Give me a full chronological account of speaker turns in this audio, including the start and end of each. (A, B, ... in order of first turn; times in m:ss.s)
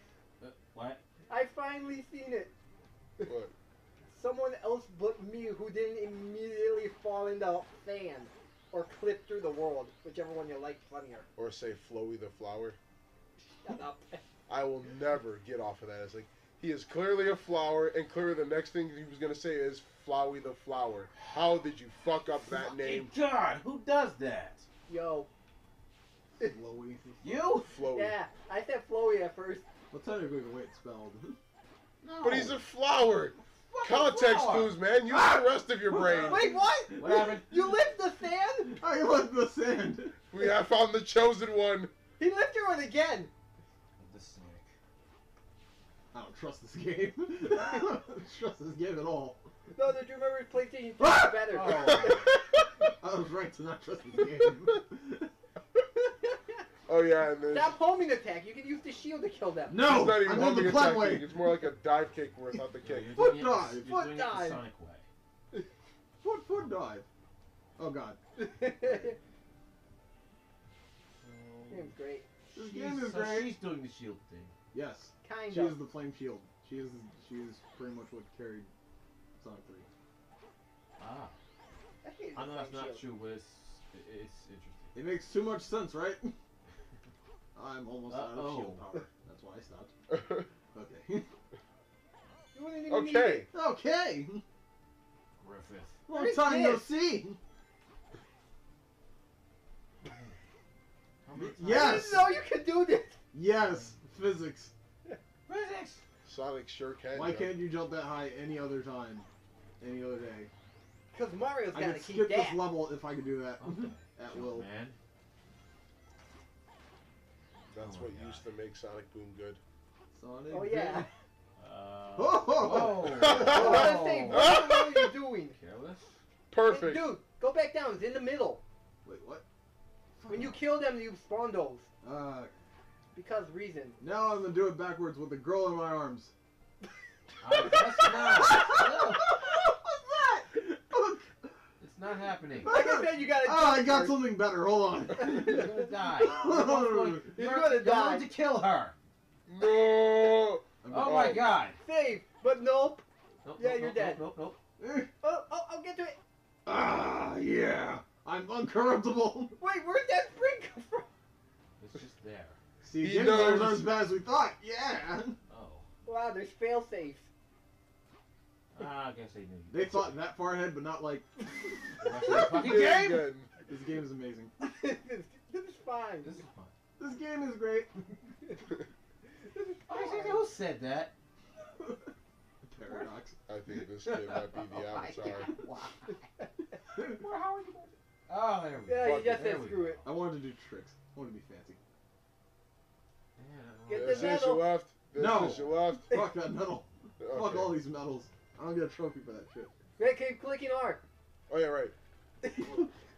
0:00.4-0:01.0 A
0:01.3-0:02.5 B
0:03.2-0:03.5 C
0:04.1-0:11.3 B
0:11.4-0:12.8 C
0:13.6-0:14.2 B
0:14.5-0:23.1 C
0:22.5-0:24.7 A
0:24.9-0:25.3 B
0:26.4-0:27.2 D
0:27.2-0:27.7 A
0:27.6-0:28.2 C
0:27.9-0:29.6 B
0:29.9-0:31.4 D
0:32.0-0:32.6 A
0:32.2-0:36.5 C
0:33.7-0:34.8 A
0:35.1-0:35.5 D
0:35.9-0:38.8 B
0:36.0-0:36.4 D
0:37.0-0:37.7 A
0:38.6-0:40.2 D
0:40.3-0:41.9 C
0:42.2-0:43.3 B
0:44.0-0:44.7 A
0:46.1-0:49.4 D
0:49.7-0:52.3 B
0:51.0-0:51.6 D
0:51.5-0:52.4 A
0:51.6-0:52.4 C
0:52.8-0:55.3 D
0:56.9-0:57.8 C
0:57.5-0:59.8 B
0:59.7-1:01.4 D
0:59.8-1:03.2 C
1:02.8-1:05.0 A
1:03.1-1:03.9 D
1:03.7-1:04.6 B
1:06.2-1:07.1 D
1:07.8-1:09.1 D
1:08.4-1:09.2 B
1:11.2-1:11.9 A
1:11.7-1:12.2 B
1:12.5-1:14.5 A
1:12.5-1:13.6 D
1:14.7-1:18.7 D
1:15.2-1:15.8 B
1:19.4-1:19.9 D
1:21.0-1:21.4 A
1:22.0-1:23.1 B
1:22.4-1:24.9 A
1:25.0-1:26.3 D
1:27.6-1:29.9 D
1:28.1-1:28.8 A
1:30.1-1:30.5 C
1:30.7-1:31.3 D
1:32.5-1:33.5 B
1:32.9-1:33.5 C
1:33.5-1:34.4 D
1:35.4-1:36.0 A
1:36.1-1:37.4 D
1:36.1-1:36.9 B
1:41.2-1:42.3 A
1:41.4-1:42.4 D
1:41.6-1:43.2 B
1:43.3-1:44.7 D
1:45.5-1:46.0 A
1:46.2-1:47.6 C
1:47.1-1:49.3 D
1:49.8-1:50.5 D
1:51.1-1:52.7 B
1:51.7-1:54.7 D
1:53.6-1:55.0 A
1:57.7-1:59.6 C
1:57.8-1:58.4 A
2:00.1-2:01.1 D
2:00.5-2:01.1 B
2:01.6-2:04.6 A
2:02.2-2:03.9 D
2:02.9-2:05.1 C
2:03.4-2:05.6 B
2:05.5-2:06.2 A
2:06.5-2:07.2 C
2:06.7-2:08.6 B
2:09.0-2:09.4 D
2:10.2-2:10.6 D
2:10.3-2:11.9 B
2:12.0-2:12.5 D
2:13.1-2:14.0 B
2:14.0-2:16.3 D
2:17.4-2:19.3 A
2:18.0-2:21.5 D
2:21.8-2:22.8 A
2:22.6-2:27.3 D
2:22.6-2:24.3 B
2:25.1-2:25.9 B
2:25.3-2:29.0 A
2:27.3-2:28.3 B
2:29.5-2:31.4 C
2:30.8-2:31.4 D
2:30.9-2:31.8 A
2:31.8-2:33.0 B
2:33.4-2:34.6 A
2:33.6-2:34.3 B
2:34.8-2:35.1 D
2:35.2-2:36.2 B
2:36.7-2:39.6 D
2:39.6-2:41.1 B
2:41.8-2:42.6 A
2:42.8-2:45.4 D
2:43.0-2:44.0 C
2:45.5-2:45.9 A
2:46.1-2:47.3 B
2:48.7-2:50.2 A
2:49.7-2:51.7 D
2:52.0-2:53.3 A
2:52.3-2:53.5 C
2:53.7-2:54.5 D
2:54.6-2:56.4 B
2:56.2-2:56.7 A
2:57.0-2:57.9 D
2:59.5-3:00.4 B
2:59.9-3:01.1 A
3:01.8-3:02.1 D
3:02.6-3:03.4 D
3:02.8-3:03.2 A
3:03.5-3:05.5 C
3:04.0-3:06.2 A
3:06.9-3:10.1 A
3:07.0-3:07.2 D
3:08.9-3:10.0 B
3:09.0-3:09.3 C
3:10.0-3:11.8 D
3:13.4-3:14.4 A
3:13.9-3:14.7 B
3:13.9-3:16.1 C
3:15.1-3:19.7 D
3:17.2-3:17.8 C
3:20.0-3:21.0 B
3:21.5-3:22.0 C
3:22.4-3:22.8 B